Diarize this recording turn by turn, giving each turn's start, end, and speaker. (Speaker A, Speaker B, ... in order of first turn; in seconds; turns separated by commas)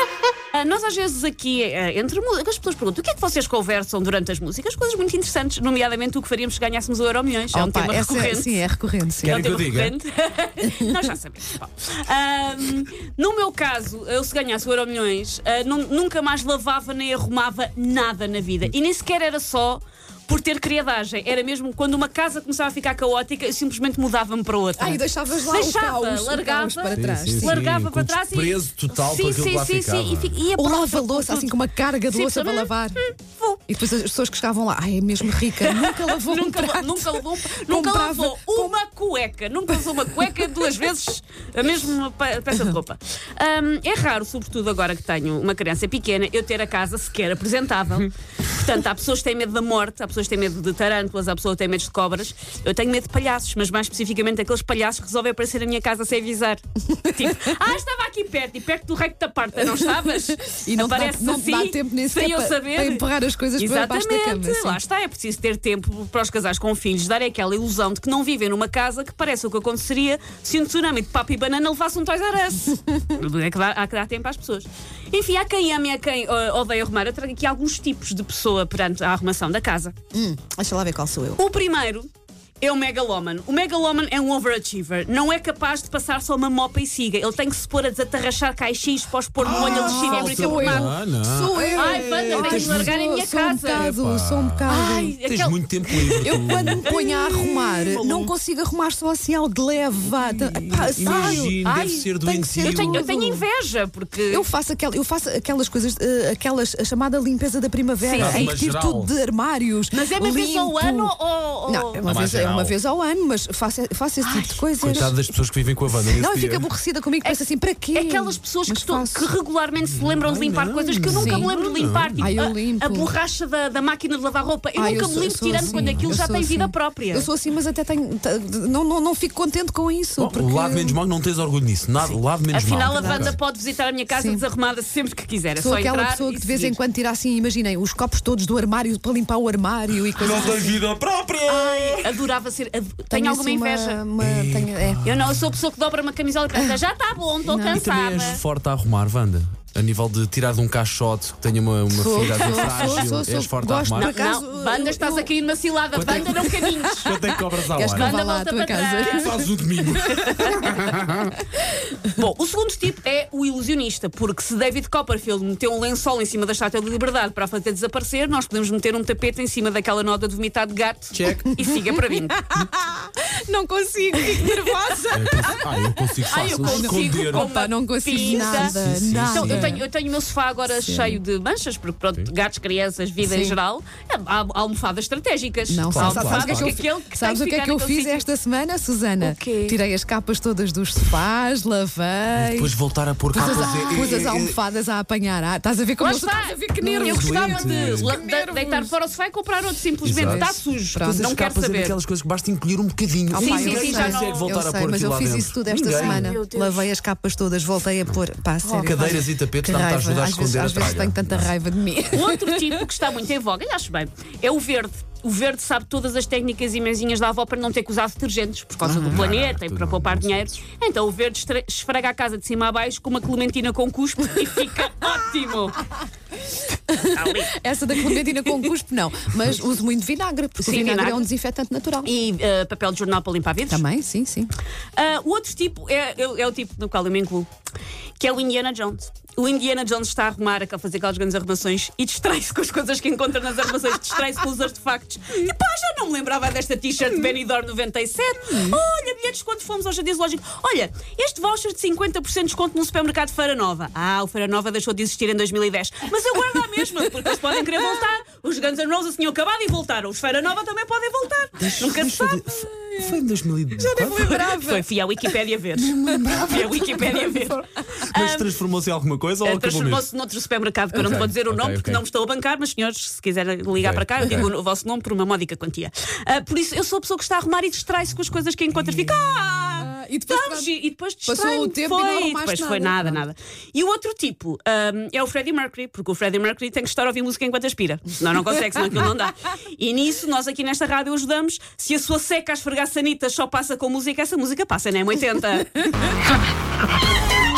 Speaker A: 0.5-8.6, Speaker B: 7.5-9.4, Speaker C: 9.2-9.9, Speaker A: 9.2-33.6, Speaker B: 10.6-11.0, Speaker B: 24.8-27.7, Speaker C: 26.9-30.4, Speaker B: 30.6-33.0, Speaker B: 33.7-38.8, Speaker A: 35.6-80.0, Speaker B: 39.7-40.5, Speaker B: 57.0-57.5, Speaker B: 59.6-64.8, Speaker B: 80.1-81.4, Speaker A: 81.4-82.1, Speaker A: 82.6-91.0, Speaker B: 89.4-95.2, Speaker C: 89.5-92.9, Speaker A: 91.7-94.0, Speaker C: 93.8-94.7, Speaker A: 94.7-98.2, Speaker C: 95.2-96.9, Speaker B: 96.2-101.6, Speaker C: 100.2-103.1, Speaker A: 101.0-102.1, Speaker B: 102.2-103.5, Speaker A: 102.6-104.5, Speaker B: 104.3-115.2, Speaker A: 108.0-108.5, Speaker C: 108.1-109.2, Speaker A: 109.9-112.0, Speaker C: 112.0-112.8, Speaker A: 114.2-115.1, Speaker C: 114.8-116.7, Speaker B: 116.1-119.3, Speaker A: 117.2-127.3, Speaker C: 119.8-122.3, Speaker B: 121.1-121.5, Speaker B: 122.2-123.2, Speaker B: 124.7-131.0, Speaker C: 125.8-126.2, Speaker C: 130.2-133.4, Speaker A: 132.5-136.8, Speaker B: 132.9-133.4, Speaker B: 134.1-134.4, Speaker B: 135.6-140.8, Speaker C: 140.2-142.2, Speaker B: 141.5-142.0, Speaker A: 142.0-144.0, Speaker B: 143.1-145.0, Speaker C: 144.2-145.5, Speaker A: 145.1-148.4, Speaker B: 146.5-146.8, Speaker B: 147.4-147.8, Speaker C: 147.7-154.2, Speaker B: 151.9-155.3, Speaker A: 152.3-153.1, Speaker A: 153.9-157.1, Speaker C: 155.9-156.4, Speaker B: 156.0-160.7, Speaker C: 157.1-158.1, Speaker A: 157.9-159.4, Speaker C: 159.1-161.4, Speaker A: 159.9-160.7, Speaker A: 162.0-172.4, Speaker C: 171.1-171.5, Speaker B: 171.5-179.9, Speaker A: 174.3-174.7, Speaker C: 175.1-177.5, Speaker A: 176.3-188.2, Speaker C: 178.8-179.8, Speaker B: 180.7-181.2, Speaker B: 183.2-183.6, Speaker B: 185.7-192.8, Speaker C: 185.9-186.8, Speaker A: 189.2-189.8, Speaker C: 192.3-194.6, Speaker B: 193.3-198.9, Speaker A: 193.4-194.2, Speaker A: 196.0-202.0, Speaker C: 197.1-198.2, Speaker C: 200.0-206.3, Speaker B: 200.2-201.2, Speaker B: 203.3-212.9, Speaker A: 203.4-204.6, Speaker A: 205.9-206.9, Speaker A: 208.6-209.0, Speaker C: 208.8-211.5, Speaker A: 212.1-225.8, Speaker B: 218.8-219.3, Speaker C: 219.1-220.4, Speaker B: 226.9-232.1, Speaker A: 227.0-228.6, Speaker A: 230.6-231.3, Speaker A: 232.0-233.8, Speaker B: 233.7-234.5, Speaker A: 235.0-237.5, Speaker A: 238.2-262.5, Speaker C: 261.6-264.2, Speaker B: 262.5-263.2, Speaker B: 263.8-265.3, Speaker A: 263.9-268.5, Speaker C: 265.9-270.1, Speaker B: 267.1-267.4, Speaker A: 269.4-295.9, Speaker C: 271.0-272.0, Speaker C: 273.8-274.5, Speaker B: 279.7-280.7, Speaker B: 281.2-283.2